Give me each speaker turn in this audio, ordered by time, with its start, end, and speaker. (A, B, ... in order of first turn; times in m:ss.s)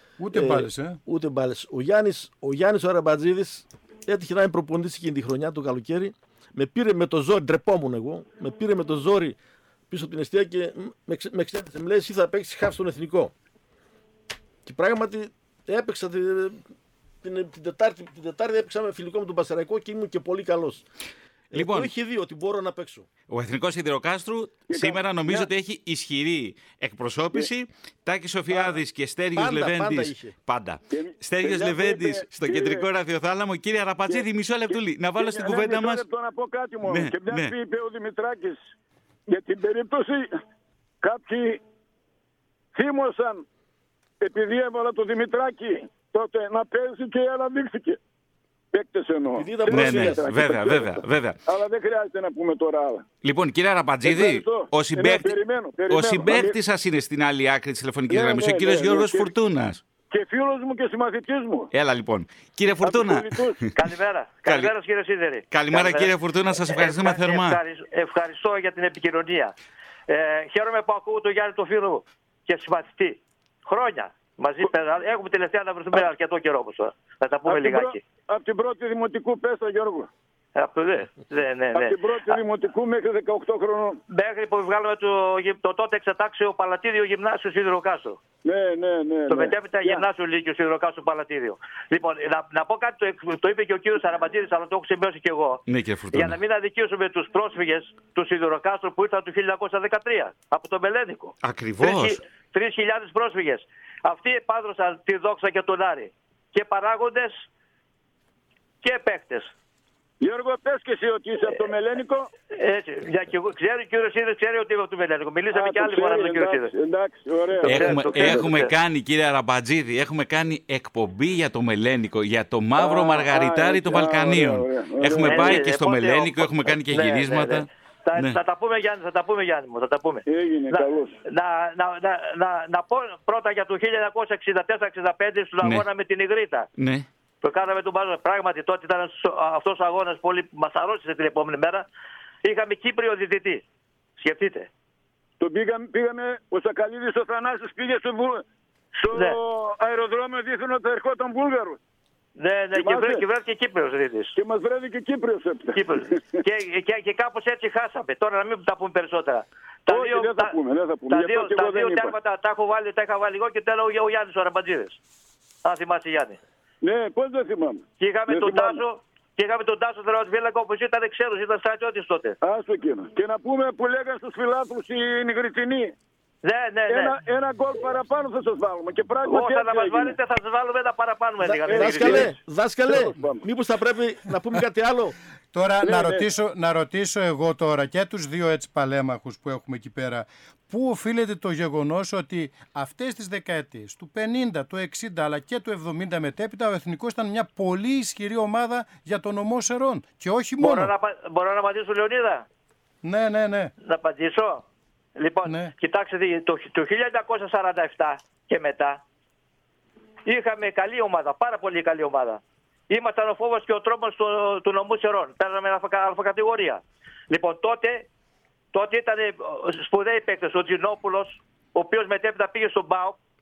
0:00.2-0:01.0 A
0:00.3-0:09.4 B
0:09.9-0:13.3 B
0:14.7-0:16.6 B
0:17.2-0:20.8 B
0:21.5-0:23.1 B
0:21.5-0:21.9 C
0:23.3-0:36.0 C
0:24.7-0:25.5 D
0:29.3-0:30.4 B
0:30.9-0:32.8 D
0:34.1-0:38.7 D
0:36.8-0:37.6 C
0:39.3-0:40.4 D
0:41.0-0:41.6 D
0:42.8-0:43.5 D
0:44.2-0:48.0 D
0:48.7-0:53.0 D
0:49.4-0:50.2 B
0:49.7-0:51.4 C
0:53.2-0:55.4 C
0:54.0-0:56.6 D
0:55.9-0:59.8 C
0:58.1-0:59.3 D
1:00.1-1:01.7 D
1:01.7-1:03.6 C
1:02.8-1:03.6 D
1:03.7-1:09.5 E
1:04.4-1:04.7 C
1:05.5-1:07.6 C
1:10.1-1:18.0 E
1:17.5-1:20.1 D
1:20.6-1:22.4 E
1:21.7-1:24.0 D
1:24.1-1:28.2 E
1:28.4-1:30.0 D
1:29.3-1:35.6 E
1:35.7-1:36.4 C
1:36.1-1:47.5 E
1:41.4-1:42.2 C
1:48.8-1:49.5 E
1:50.2-1:52.3 D
1:52.6-1:56.7 E
1:55.5-1:58.5 D
1:57.6-1:58.7 E
1:57.6-2:08.4 C
2:02.8-2:03.5 E
2:03.4-2:05.6 D
2:05.2-2:16.7 E
2:10.3-2:11.2 D
2:16.8-2:17.1 C
2:17.4-2:21.9 E
2:22.4-2:23.6 E
2:24.2-2:24.7 E
2:25.4-2:28.4 D
2:29.0-2:31.8 D
2:29.1-2:29.4 E
2:32.4-2:34.4 E
2:32.8-2:33.2 D
2:34.4-2:36.4 D
2:35.7-2:40.6 E
2:39.9-2:42.1 D
2:41.1-2:45.0 E
2:45.6-2:46.4 E
2:46.8-2:48.8 D
2:48.0-2:52.4 E
2:52.4-2:55.9 D
2:56.4-2:57.2 E
2:56.9-3:00.2 D
2:59.2-3:02.3 E
3:01.4-3:05.2 B
3:01.7-3:03.4 D
3:05.5-3:20.9 A
3:05.8-3:06.3 D
3:20.6-3:22.4 E
3:23.0-3:23.7 A
3:23.8-3:24.6 E
3:25.2-3:29.0 E
3:25.4-3:25.7 A
3:30.2-3:38.1 E
3:38.7-3:43.2 E